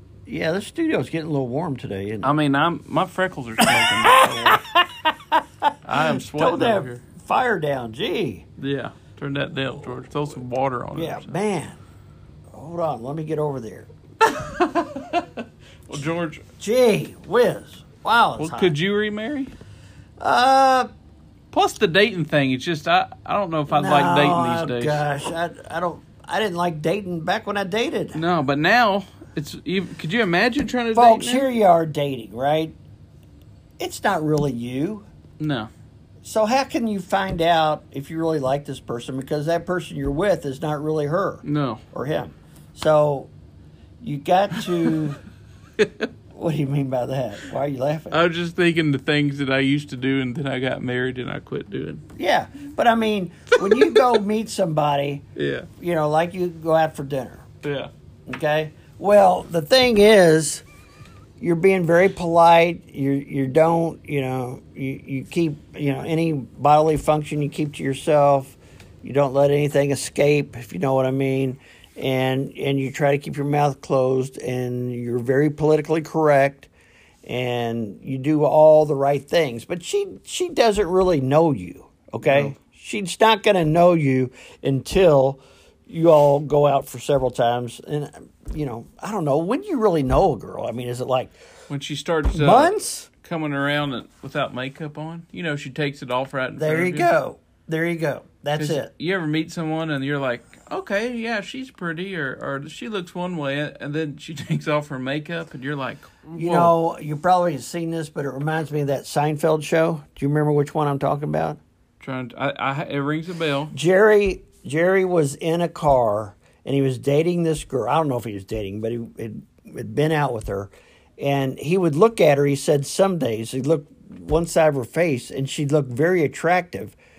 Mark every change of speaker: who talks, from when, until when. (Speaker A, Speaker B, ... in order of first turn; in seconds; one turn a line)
Speaker A: 0.3-2.4
Speaker B: 2.2-4.7
Speaker A: 3.6-8.5
Speaker B: 5.8-7.0
Speaker B: 8.6-11.4
Speaker A: 10.9-11.8
Speaker A: 12.5-13.9
Speaker B: 14.2-16.4
Speaker A: 16.6-18.8
Speaker B: 18.4-19.5
Speaker A: 20.2-20.9
Speaker B: 21.5-25.0
Speaker A: 23.7-28.2
Speaker B: 28.1-31.5
Speaker A: 30.9-32.8
Speaker A: 33.8-35.1
Speaker B: 35.4-35.7
Speaker A: 36.2-43.3
Speaker B: 41.4-41.8
Speaker A: 44.0-45.2
Speaker B: 44.6-45.0
Speaker B: 45.8-46.1
Speaker A: 46.3-48.2
Speaker B: 48.1-52.0
Speaker A: 52.1-55.2
Speaker B: 53.7-54.1
Speaker B: 55.4-55.7
Speaker A: 55.8-57.5
Speaker B: 57.6-57.9
Speaker A: 58.3-60.6
Speaker A: 61.4-76.7
Speaker A: 77.2-91.3
Speaker B: 82.2-82.5
Speaker B: 91.7-97.1
Speaker A: 92.3-93.1
Speaker A: 96.6-98.9
Speaker B: 98.6-106.7
Speaker A: 106.3-111.6
Speaker B: 112.0-113.7
Speaker A: 113.7-127.0